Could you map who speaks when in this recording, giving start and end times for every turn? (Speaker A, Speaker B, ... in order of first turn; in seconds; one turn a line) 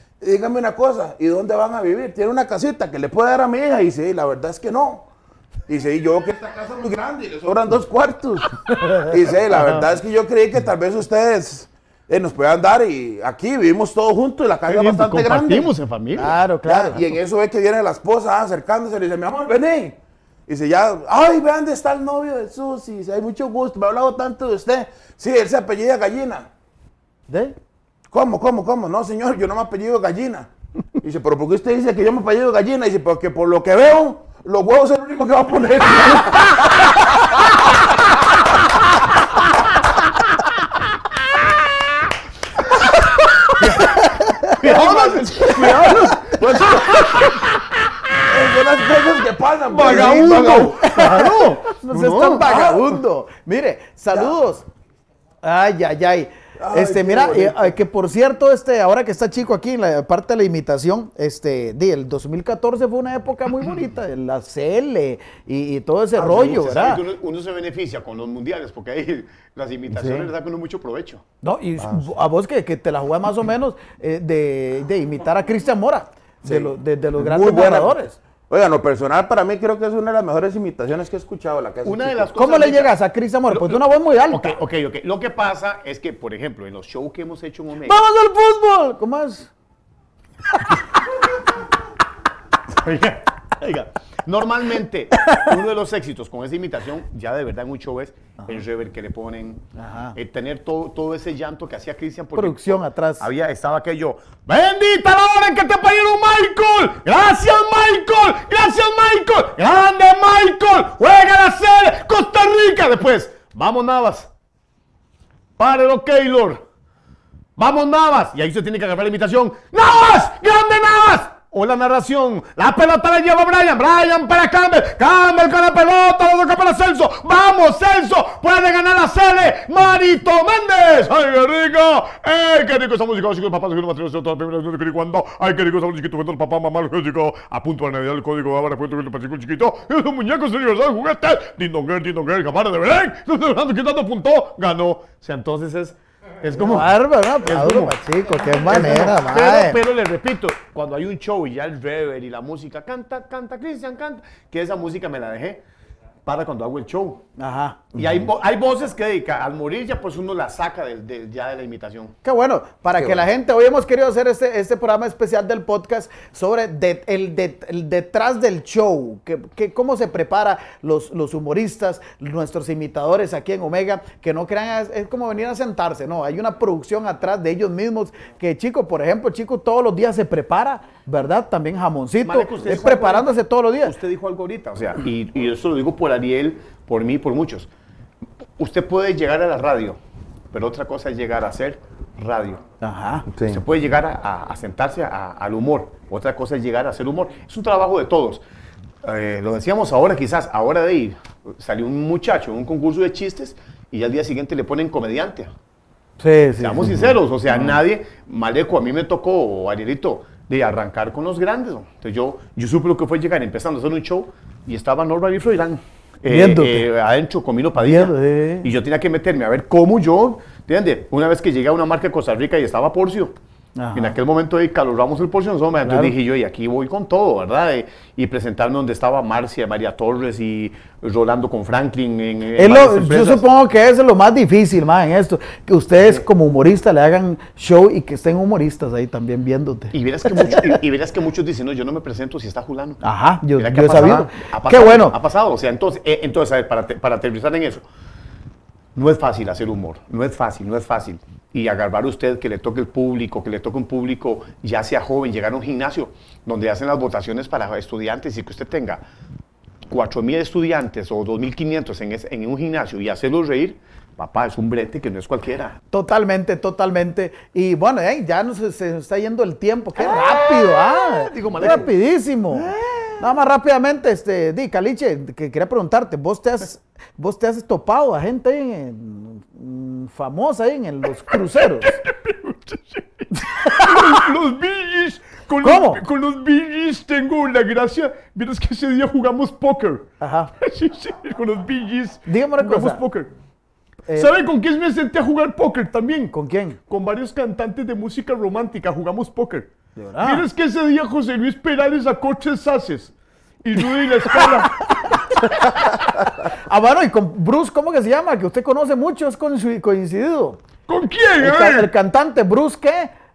Speaker A: 0.2-5.1
Speaker A: 5.7-15.7
Speaker B: 14.7-16.4
Speaker C: 16.1-17.1
Speaker A: 16.6-26.5
Speaker C: 27.3-27.6
Speaker A: 28.1-36.7
Speaker B: 43.6-47.5
Speaker C: 43.8-46.4
Speaker A: 46.3-46.8
Speaker A: 48.3-51.0
Speaker B: 49.7-52.5
Speaker C: 49.8-54.7
Speaker A: 52.4-53.0
Speaker C: 55.4-67.0
Speaker A: 56.6-57.7
Speaker B: 66.2-71.2
Speaker A: 69.9-70.3
Speaker C: 71.4-78.2
Speaker A: 71.8-72.1
Speaker A: 76.4-82.3
Speaker B: 81.8-83.0
Speaker C: 82.4-84.6
Speaker B: 83.5-88.0
Speaker C: 87.8-89.5
Speaker B: 92.7-99.6
Speaker C: 95.1-95.5
Speaker C: 99.8-100.2
Speaker B: 100.2-114.3
Speaker C: 102.3-103.3
Speaker B: 115.6-116.6
Speaker B: 117.6-155.6
Speaker C: 146.5-149.8
Speaker B: 156.3-157.2
Speaker C: 157.4-157.8
Speaker A: 157.9-158.3
Speaker B: 157.9-162.1
Speaker C: 162.2-183.9
Speaker A: 163.0-163.2
Speaker B: 182.2-187.7
Speaker B: 188.6-190.0
Speaker B: 190.5-192.6
Speaker C: 192.8-193.3
Speaker A: 193.3-193.6
Speaker B: 193.4-198.4
Speaker B: 199.0-205.5
Speaker C: 206.2-207.1
Speaker B: 206.6-223.3
Speaker C: 216.2-216.9
Speaker C: 217.8-218.7
Speaker C: 223.8-224.2
Speaker B: 223.9-233.4
Speaker C: 225.8-226.2
Speaker C: 232.6-240.8
Speaker B: 239.9-243.0
Speaker C: 243.0-245.2
Speaker B: 243.6-247.8
Speaker B: 248.9-259.0
Speaker B: 259.9-265.8
Speaker C: 265.9-282.0
Speaker B: 270.0-271.9
Speaker B: 272.5-273.1
Speaker B: 281.3-290.1
Speaker C: 283.5-284.1
Speaker C: 285.6-286.0
Speaker C: 290.2-290.5
Speaker B: 290.6-293.3
Speaker C: 292.3-293.0
Speaker B: 294.1-296.3
Speaker C: 296.3-296.8
Speaker B: 296.9-299.7
Speaker C: 299.9-300.4
Speaker B: 300.2-303.1
Speaker B: 303.6-305.6
Speaker C: 305.4-310.6
Speaker B: 310.9-311.9
Speaker C: 311.4-313.1